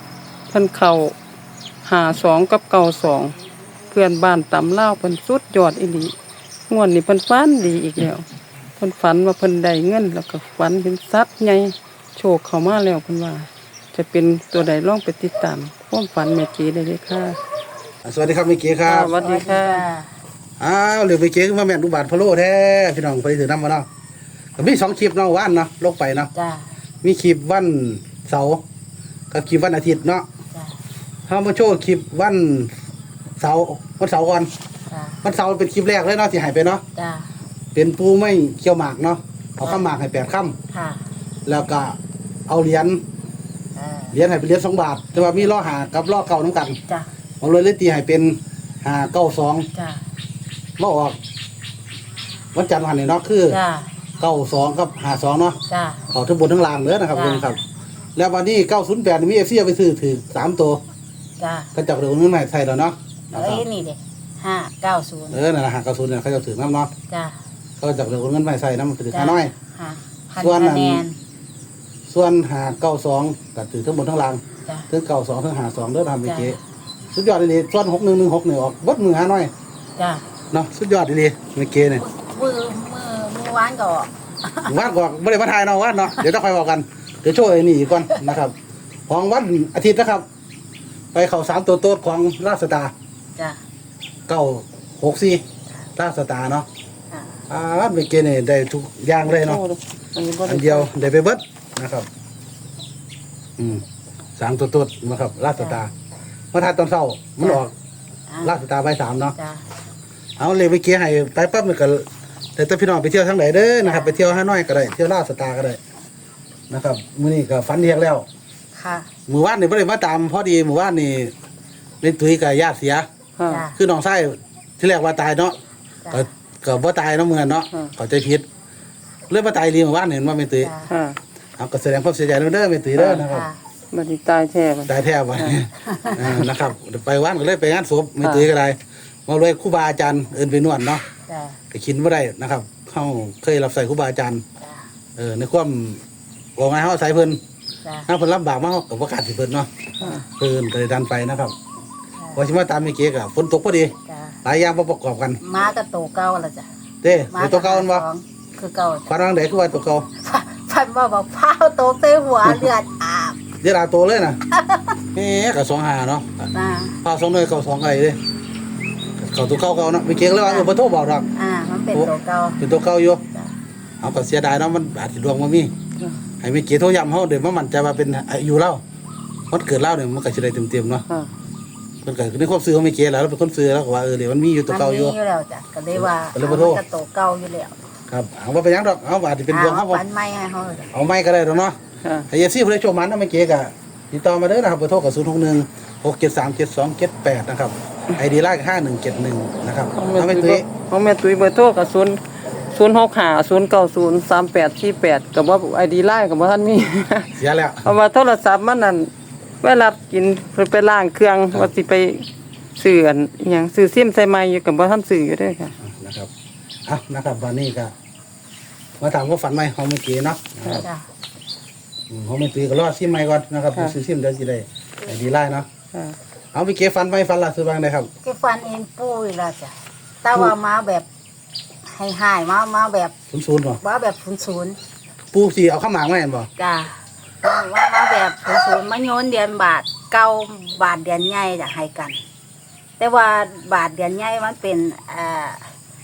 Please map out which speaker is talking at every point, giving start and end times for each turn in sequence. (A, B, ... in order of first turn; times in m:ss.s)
0:00.5-0:01.1 A
0:01.8-0:03.3 A
0:03.9-0:06.1 A
0:06.7-0:08.2 A
0:08.8-0:17.4 A
0:18.0-0:19.1 B
0:18.8-0:19.8 A
0:19.1-0:20.1 C
0:20.6-0:23.9 B
0:24.6-0:26.3 B
0:26.3-0:26.7 C
0:27.0-0:28.6 B
0:29.3-0:30.2 B
0:30.5-0:30.8 C
0:31.3-0:32.7 B
0:33.4-0:34.5 B
0:34.9-0:35.2 C
0:35.2-0:36.8 B
0:37.0-0:37.3 C
0:37.7-0:40.6 B
0:40.7-0:41.0 C
0:41.4-0:42.0 B
0:42.5-0:43.0 B
0:43.8-0:44.2 C
0:44.1-0:46.8 B
0:45.1-0:45.5 C
0:47.4-0:49.7 B
0:49.7-0:50.0 C
0:50.8-0:51.2 B
0:52.5-0:53.6 B
0:53.5-0:53.9 C
0:54.2-0:57.6 B
0:55.7-0:56.0 C
0:57.1-0:57.6 C
0:58.2-1:00.8 B
1:01.4-1:01.7 C
1:01.7-1:03.6 B
1:03.3-1:05.4 C
1:05.3-1:06.9 B
1:07.1-1:07.4 C
1:07.8-1:09.5 B
1:09.1-1:11.2 C
1:10.4-1:11.0 B
1:12.1-1:16.6 B
1:16.2-1:16.6 C
1:17.1-1:19.5 B
1:20.0-1:20.2 C
1:20.5-1:22.0 B
1:22.0-1:24.8 C
1:24.6-1:28.5 B
1:29.1-1:30.2 B
1:31.1-1:32.9 B
1:34.3-1:35.4 B
1:36.0-1:36.7 B
1:37.1-1:37.4 C
1:37.5-1:39.6 B
1:39.2-1:40.9 A
1:40.4-1:42.1 B
1:43.6-1:43.8 B
1:44.4-1:45.9 B
1:46.5-1:47.7 B
1:48.3-1:48.5 C
1:48.4-1:49.4 B
1:49.3-1:49.6 C
1:50.4-1:55.8 B
1:53.8-1:54.2 C
1:56.7-1:58.3 B
1:58.7-1:59.1 C
1:59.3-2:01.3 B
2:02.0-2:03.1 B
2:03.4-2:03.7 A
2:03.5-2:03.8 C
2:03.7-2:05.6 B
2:06.1-2:08.4 B
2:09.3-2:10.7 B
2:10.6-2:10.9 C
2:10.9-2:11.2 A
2:11.6-2:13.5 B
2:13.0-2:13.2 A
2:13.3-2:13.6 C
2:13.9-2:15.6 A
2:14.9-2:21.0 B
2:15.8-2:16.4 C
2:18.2-2:18.5 A
2:21.3-2:21.6 C
2:21.7-2:24.4 B
2:24.6-2:24.9 C
2:25.2-2:26.0 B
2:26.6-2:27.4 B
2:27.8-2:28.1 C
2:28.1-2:31.5 B
2:32.3-2:35.4 B
2:34.1-2:34.4 C
2:35.4-2:36.7 C
2:37.0-2:38.0 B
2:37.3-2:39.1 C
2:39.1-2:40.1 B
2:40.2-2:43.4 C
2:42.4-2:42.7 B
2:43.6-2:44.4 B
2:44.5-2:45.0 C
2:45.1-2:46.5 B
2:46.5-2:47.0 C
2:47.0-2:48.2 B
2:49.2-2:51.3 B
2:50.4-2:50.7 C
2:51.3-2:52.6 C
2:51.9-2:53.2 B
2:54.0-2:55.7 B
2:56.4-2:58.8 B
2:59.5-3:01.0 B
3:02.0-3:05.2 B
3:04.7-3:07.7 C
3:05.9-3:06.8 B
3:08.1-3:10.0 B
3:09.5-3:10.9 C
3:10.9-3:11.8 B
3:12.3-3:20.6 B
3:19.9-3:22.2 A
3:22.7-3:29.1 A
3:27.4-3:27.9 B
3:29.6-3:32.2 A
3:32.8-3:35.8 A
3:35.8-3:36.3 B
3:36.8-3:37.9 B
3:39.0-3:40.9 B
3:42.1-3:45.7 B
3:46.5-3:48.1 B
3:48.2-3:51.0 C
3:51.8-3:53.1 C
3:53.3-3:53.8 B
3:53.8-3:54.8 C
3:55.3-3:56.5 B
3:56.6-4:02.2 C
4:03.0-4:05.7 C